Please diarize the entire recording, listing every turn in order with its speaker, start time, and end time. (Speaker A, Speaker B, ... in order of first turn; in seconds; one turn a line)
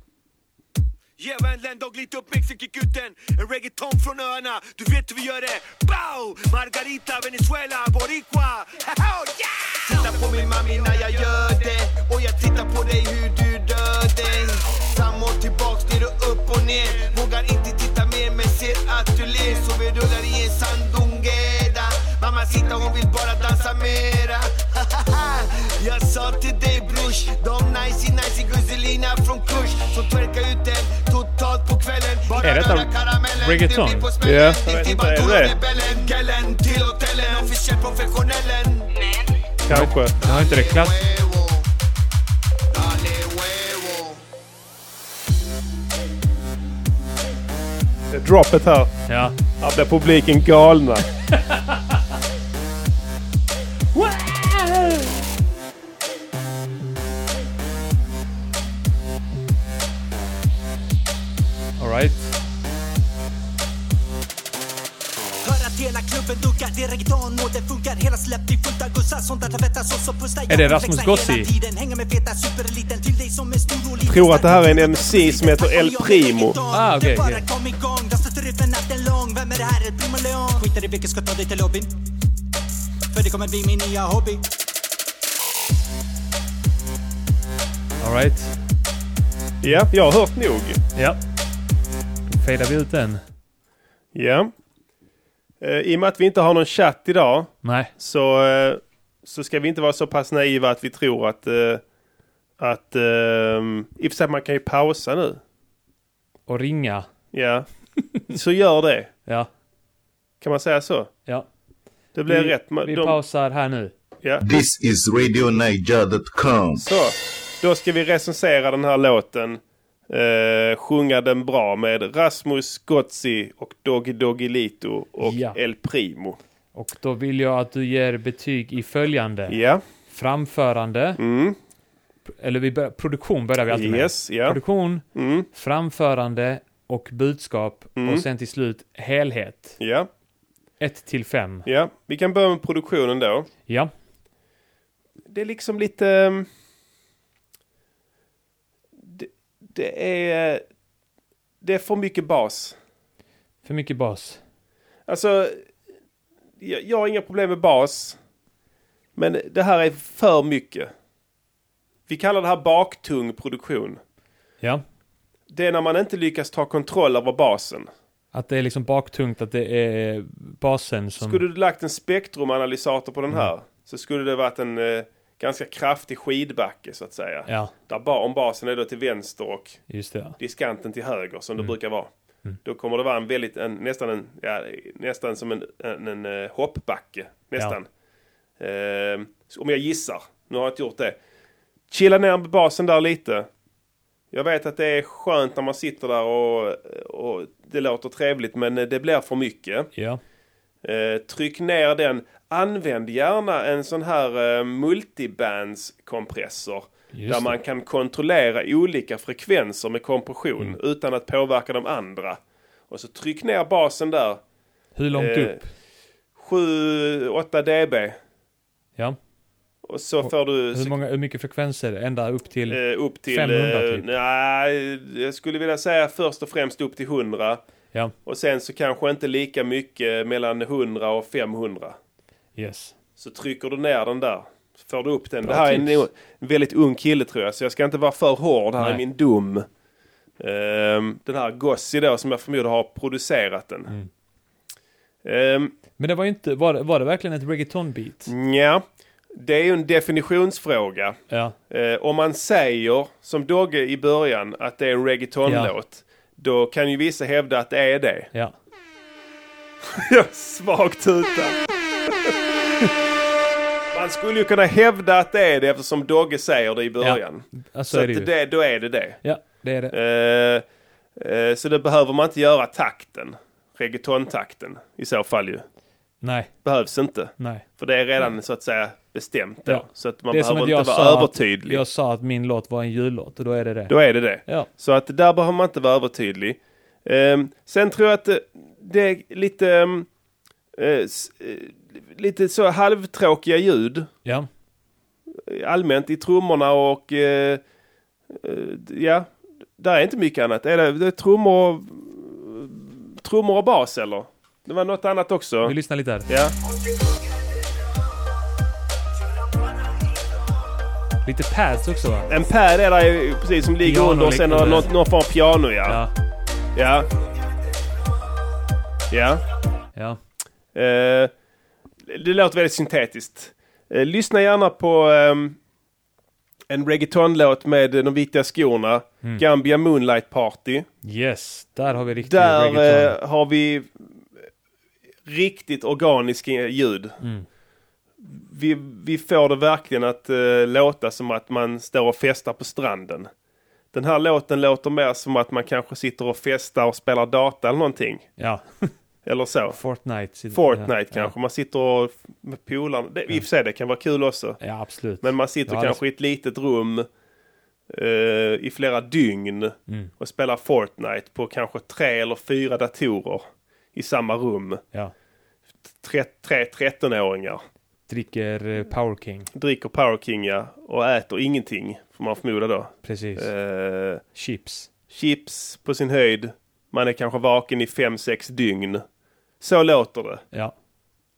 Speaker A: 1.2-39.2
Speaker B: 32.4-34.1
Speaker C: 34.2-35.5
Speaker C: 39.7-40.1
Speaker B: 39.7-40.9
Speaker A: 40.2-41.7
Speaker A: 42.7-44.2
Speaker C: 48.1-48.9
Speaker B: 49.1-49.4
Speaker C: 49.6-51.1
Speaker B: 51.2-52.0
Speaker B: 53.9-55.2
Speaker B: 61.8-62.3
Speaker D: 65.4-81.9
Speaker B: 70.5-71.5
Speaker C: 74.0-76.6
Speaker B: 76.7-77.4
Speaker D: 83.1-84.4
Speaker B: 88.0-88.6
Speaker C: 89.6-90.8
Speaker B: 90.9-91.2
Speaker B: 92.3-93.2
Speaker C: 94.1-94.5
Speaker C: 95.6-101.8
Speaker B: 97.6-97.9
Speaker C: 102.6-105.4
Speaker B: 106.5-107.1
Speaker C: 107.3-107.7
Speaker C: 108.2-109.1
Speaker C: 110.4-111.1
Speaker C: 112.1-113.2
Speaker B: 112.2-113.9
Speaker E: 114.4-116.8
Speaker C: 116.8-126.4
Speaker B: 125.2-125.6
Speaker B: 126.7-131.2
Speaker C: 129.5-129.8
Speaker C: 131.2-131.6
Speaker B: 132.3-139.8
Speaker C: 133.7-134.6
Speaker C: 135.1-135.5
Speaker C: 137.9-138.2
Speaker C: 139.8-140.1
Speaker B: 140.8-141.7
Speaker C: 141.7-143.5
Speaker C: 145.3-146.5
Speaker C: 149.0-150.6
Speaker C: 151.6-152.8
Speaker B: 153.6-154.4
Speaker C: 155.1-155.6
Speaker C: 156.6-158.2
Speaker C: 159.2-160.9
Speaker C: 162.1-164.0
Speaker C: 165.5-167.9
Speaker B: 168.3-171.4
Speaker C: 171.2-179.8
Speaker B: 177.5-177.7
Speaker B: 179.9-180.4
Speaker C: 180.4-182.1
Speaker C: 182.6-187.9
Speaker C: 188.6-191.2
Speaker C: 191.9-193.5
Speaker C: 194.3-199.9
Speaker B: 199.9-200.2
Speaker C: 200.8-214.4
Speaker B: 207.1-207.6
Speaker B: 214.9-215.7
Speaker C: 215.1-215.6
Speaker C: 216.4-218.2
Speaker C: 219.8-220.9
Speaker B: 220.2-224.1
Speaker C: 222.7-227.6
Speaker C: 228.2-232.0
Speaker B: 232.6-232.9
Speaker C: 233.2-239.7
Speaker B: 235.4-236.1
Speaker C: 240.4-243.9
Speaker C: 245.2-245.7
Speaker B: 246.0-248.3
Speaker C: 248.3-248.8
Speaker C: 249.3-258.3
Speaker B: 251.3-251.6
Speaker B: 255.4-255.7
Speaker C: 259.9-261.6
Speaker C: 263.9-269.2
Speaker B: 267.0-268.3
Speaker B: 269.2-269.9
Speaker C: 269.9-270.6
Speaker C: 271.2-275.6
Speaker B: 276.2-276.5
Speaker C: 276.6-281.8
Speaker B: 277.4-277.6
Speaker B: 279.6-284.7
Speaker C: 283.9-290.1
Speaker C: 290.8-294.1
Speaker C: 295.5-297.6
Speaker C: 298.3-305.8
Speaker B: 305.6-306.3
Speaker C: 306.3-306.5
Speaker B: 311.2-312.3
Speaker C: 312.3-316.0
Speaker B: 313.8-314.9
Speaker B: 315.8-316.1
Speaker C: 316.7-317.1
Speaker C: 319.1-319.4
Speaker B: 319.9-320.2
Speaker C: 320.7-321.3
Speaker C: 322.1-325.6
Speaker C: 326.7-330.9
Speaker B: 331.0-333.2
Speaker C: 332.2-334.1
Speaker C: 335.3-337.2
Speaker B: 337.2-337.4
Speaker C: 338.2-343.3
Speaker C: 343.9-348.3
Speaker B: 348.4-348.9
Speaker C: 349.2-349.8
Speaker B: 349.7-351.3
Speaker C: 350.5-354.6
Speaker B: 354.6-356.0
Speaker C: 355.2-357.1
Speaker C: 357.9-364.8
Speaker C: 366.0-367.6
Speaker B: 368.1-369.5
Speaker C: 369.5-374.2
Speaker B: 373.0-373.5
Speaker B: 374.3-374.9
Speaker C: 375.1-379.0
Speaker C: 379.6-380.4